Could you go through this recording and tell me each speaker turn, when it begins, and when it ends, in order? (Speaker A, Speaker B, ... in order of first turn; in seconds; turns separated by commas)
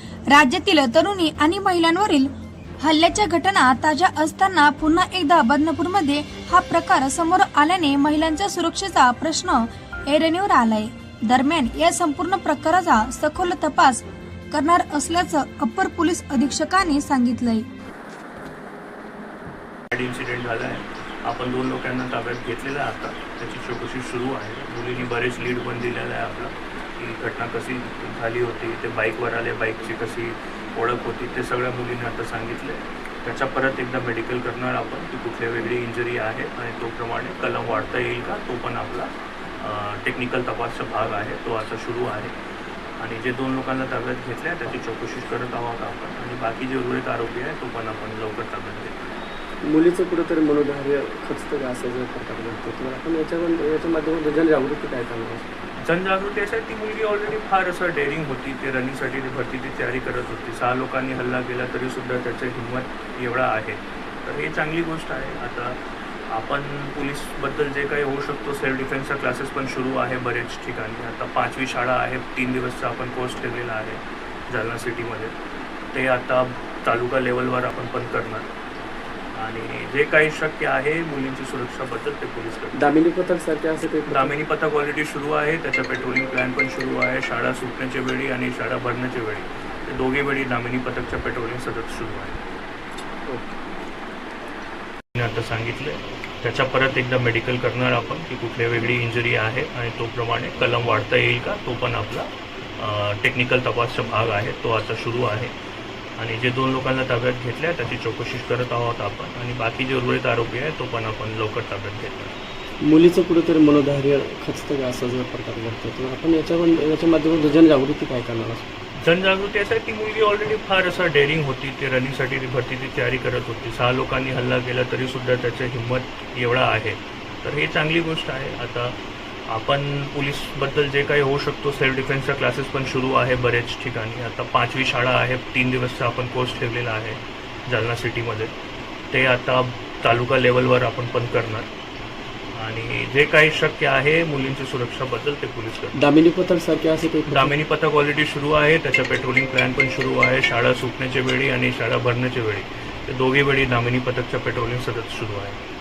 Speaker A: 0.3-17.6, Speaker B: 19.9-42.3, Speaker B: 43.0-49.0, Speaker C: 49.6-55.5, Speaker B: 55.8-65.8, Speaker B: 66.3-75.3, Speaker B: 75.9-78.5, Speaker B: 79.4-82.8, Speaker C: 82.7-84.3, Speaker B: 84.1-92.4, Speaker C: 93.3-93.6, Speaker B: 95.2-105.5, Speaker B: 106.2-112.3, Speaker C: 112.8-118.7, Speaker B: 119.0-129.0, Speaker B: 129.5-138.5, Speaker B: 139.1-141.7, Speaker B: 142.6-146.0, Speaker C: 145.9-147.5, Speaker B: 147.3-155.6